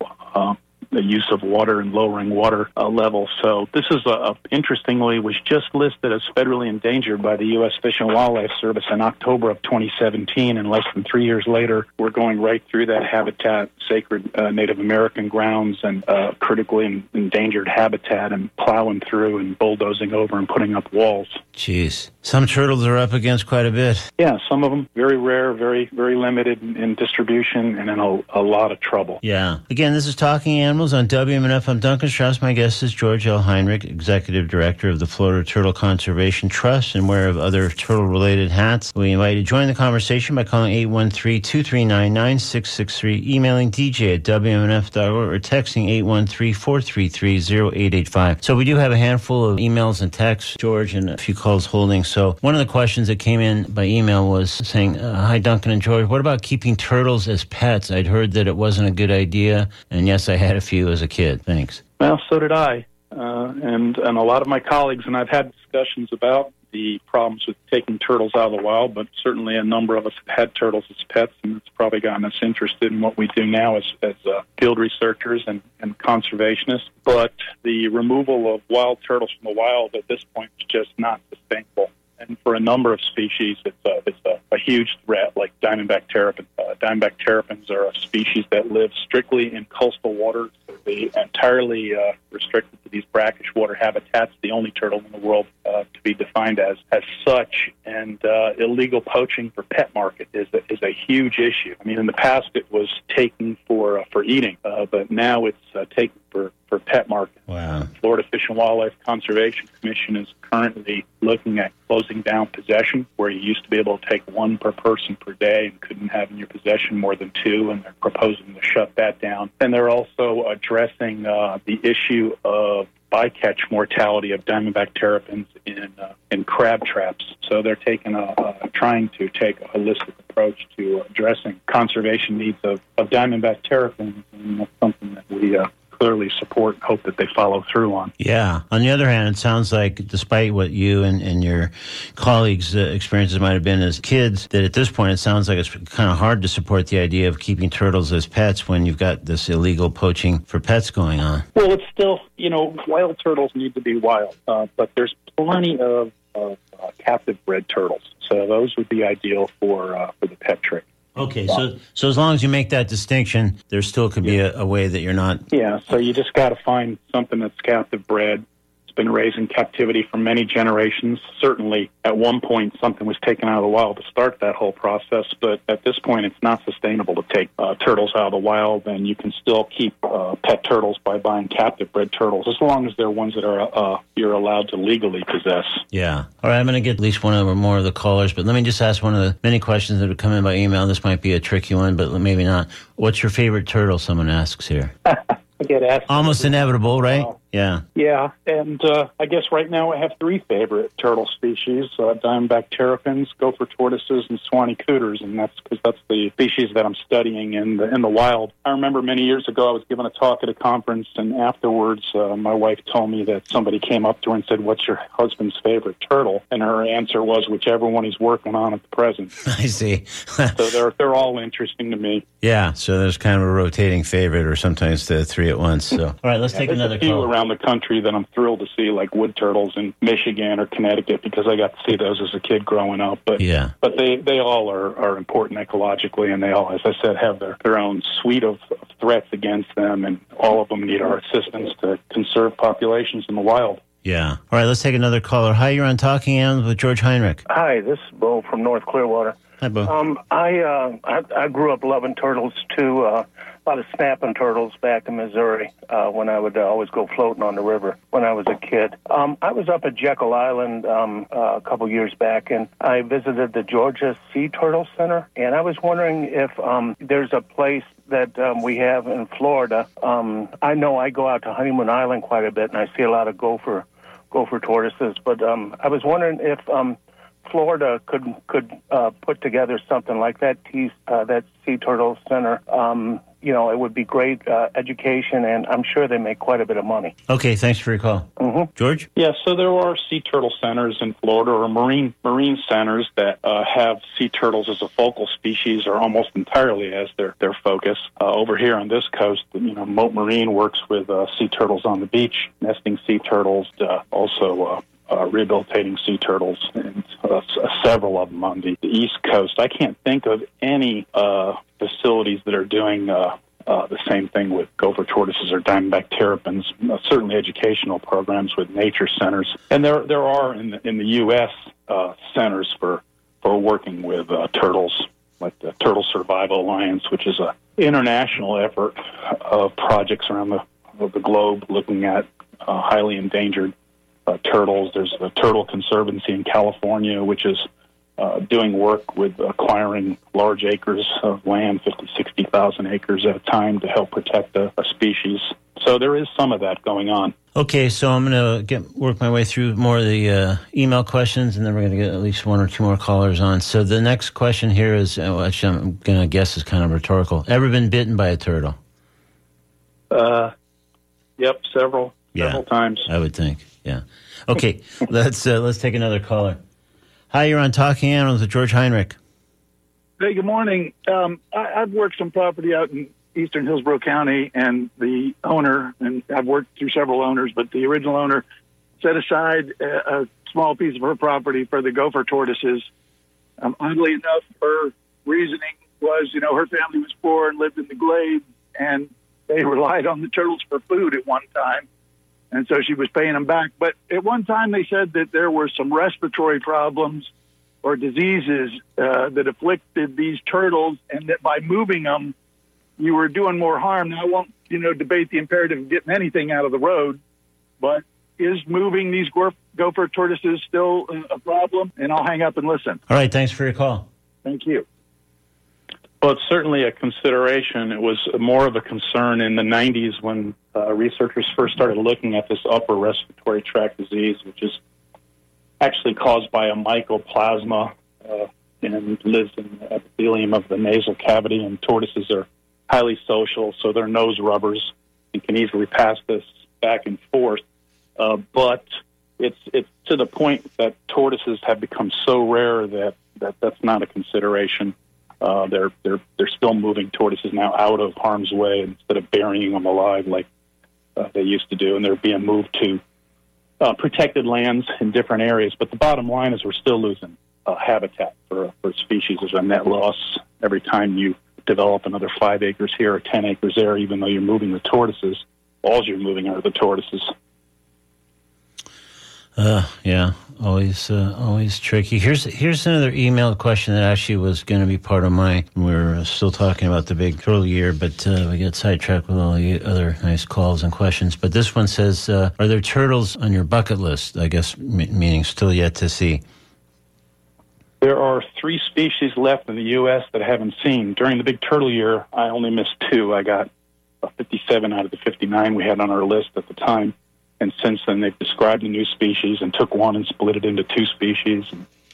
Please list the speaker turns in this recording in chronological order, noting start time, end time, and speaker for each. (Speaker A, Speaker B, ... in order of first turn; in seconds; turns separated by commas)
Speaker A: 0.3-21.4, Speaker B: 21.6-24.1, Speaker A: 24.2-29.2, Speaker B: 29.2-61.8, Speaker A: 62.0-107.4, Speaker B: 107.5-107.9, Speaker A: 108.0-138.1, Speaker B: 138.2-151.4, Speaker A: 151.6-160.9, Speaker B: 161.2-165.4, Speaker A: 165.5-185.8, Speaker B: 185.9-194.9, Speaker A: 195.1-197.3, Speaker B: 196.1-197.8, Speaker A: 197.9-219.3, Speaker B: 219.4-220.7, Speaker A: 220.5-222.2, Speaker B: 222.4-227.3, Speaker A: 226.6-243.8, Speaker B: 233.4-233.7, Speaker B: 244.0-247.4, Speaker C: 247.5-287.1, Speaker B: 249.6-249.9, Speaker B: 287.3-289.1, Speaker C: 288.4-288.7, Speaker A: 289.2-333.7, Speaker A: 334.3-337.7, Speaker A: 338.2-347.4, Speaker B: 347.6-358.8, Speaker A: 360.1-360.5, Speaker A: 361.4-363.1, Speaker B: 362.4-366.6, Speaker B: 367.3-369.2, Speaker D: 370.2-378.4, Speaker D: 379.0-382.9, Speaker D: 383.6-391.9, Speaker D: 392.5-397.3, Speaker D: 397.8-402.3, Speaker D: 403.0-407.2, Speaker D: 407.8-413.0, Speaker B: 413.1-414.1, Speaker D: 414.4-414.9, Speaker A: 416.2-424.8, Speaker A: 425.8-437.6, Speaker A: 438.2-438.9, Speaker A: 439.4-450.5, Speaker A: 451.2-453.0, Speaker A: 453.8-467.3, Speaker B: 469.6-486.4, Speaker A: 488.0-493.7, Speaker A: 494.2-501.9